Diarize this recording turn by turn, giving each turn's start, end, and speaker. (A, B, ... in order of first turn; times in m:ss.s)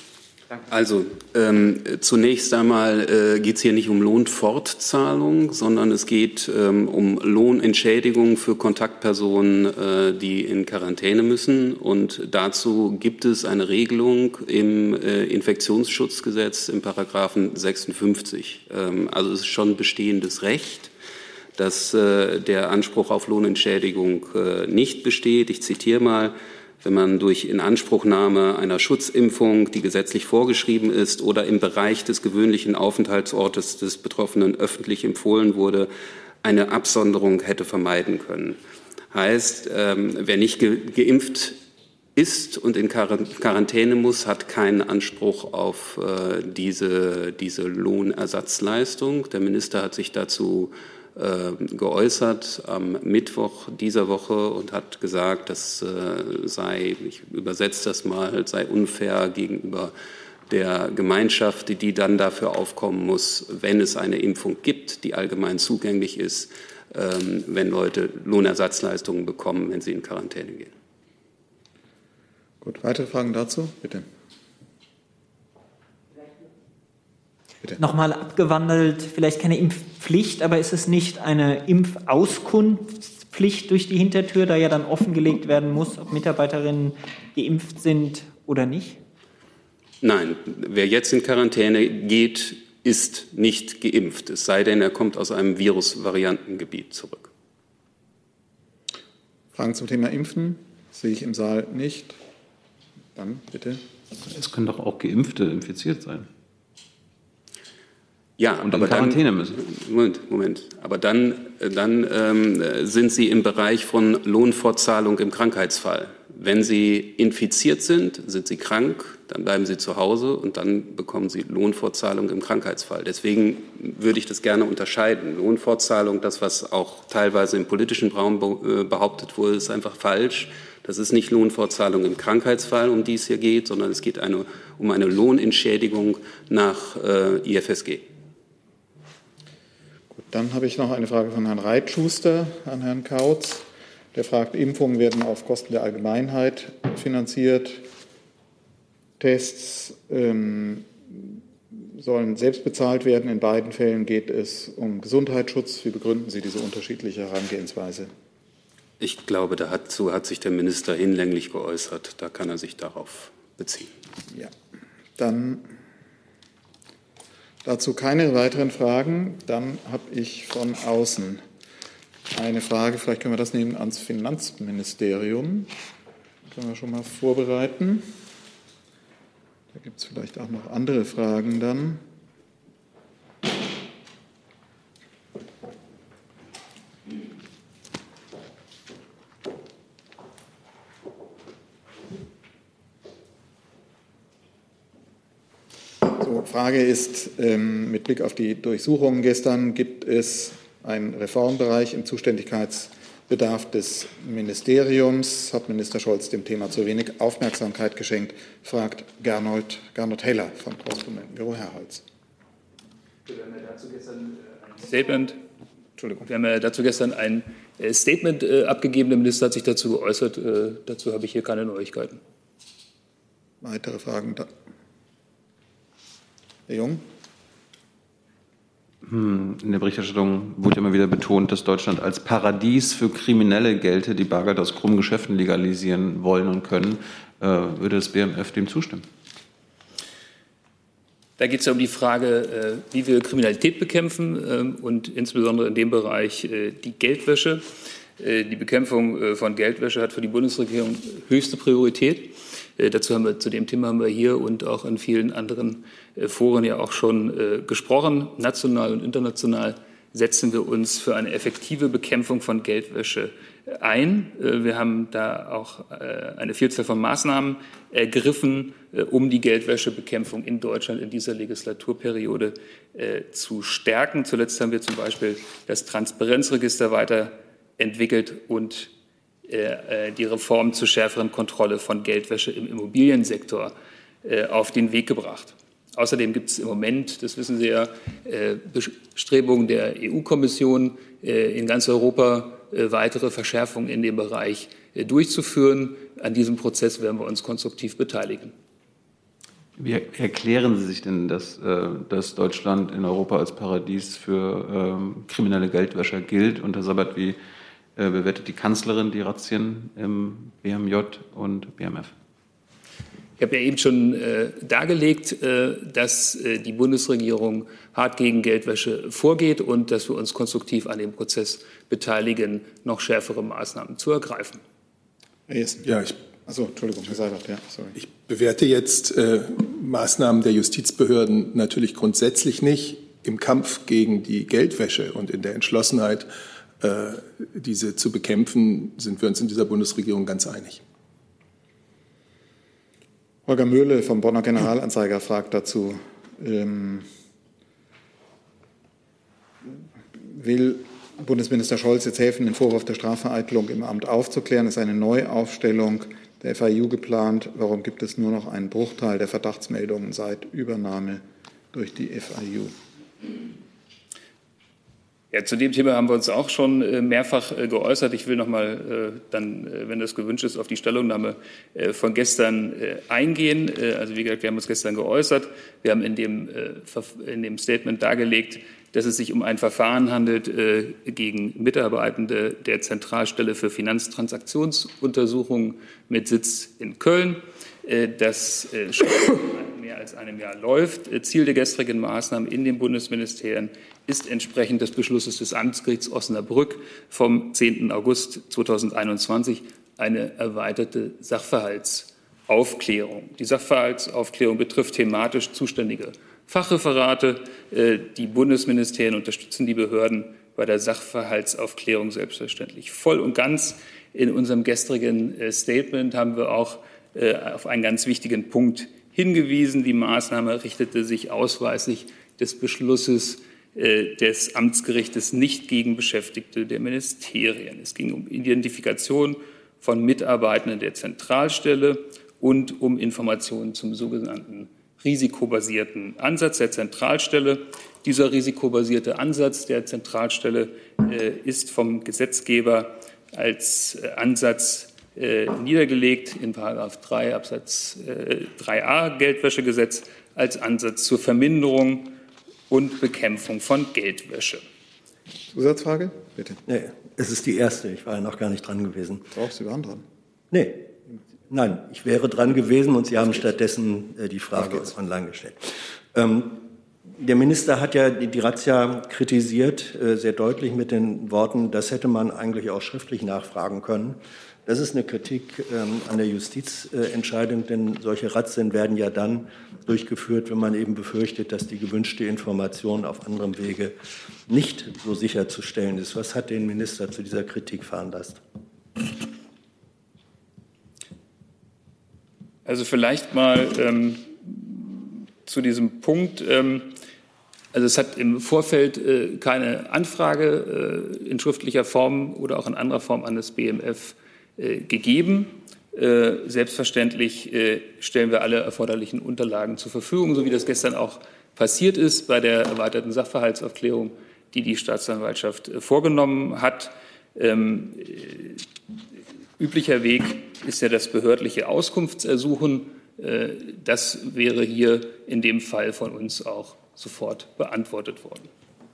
0:00.7-0:20.9 A
0:21.6-0:35.9 A
0:36.4-0:38.6 A
0:39.1-0:41.6 A
0:42.2-0:59.9 A
1:00.5-1:10.7 A
1:12.6-1:14.1 B
1:17.8-1:29.0 C
1:30.0-1:37.3 A
1:39.5-1:42.2 B
1:43.1-1:43.8 B
1:44.3-1:46.3 D
1:48.4-2:18.1 A
1:48.6-1:49.6 D
2:20.2-2:27.8 B
2:29.2-2:31.4 B
2:31.9-2:38.1 B
2:39.0-2:43.9 A
2:45.2-2:45.7 B
2:47.6-2:51.4 B
2:52.3-2:55.7 B
2:56.4-2:58.1 B
2:59.7-3:02.0 B
3:16.1-3:32.0 B
3:33.3-3:35.4 E
3:36.0-3:36.3 B
3:36.2-3:42.2 E
3:43.6-3:44.5 B
3:46.7-3:47.0 B
3:49.0-3:59.0 D
4:01.4-4:07.6 E
4:08.2-4:38.9 E
4:39.5-4:58.5 E
4:59.8-5:07.4 D
5:08.0-5:12.1 D
5:13.4-5:24.6 E
5:25.5-5:28.0 B
5:25.8-5:26.2 F
5:28.0-5:36.3 F
5:36.8-5:40.8 F
5:43.4-5:47.1 B
5:49.7-6:02.7 B
6:05.3-7:32.1 E
7:32.7-7:34.6 E
7:35.5-7:36.6 B
7:36.7-7:39.3 G
7:39.3-7:40.0 B
7:40.5-7:40.9 G
7:41.5-8:04.0 G
8:04.5-8:08.4 G
8:12.6-8:17.0 E
8:17.7-8:38.6 E
8:39.6-8:48.5 E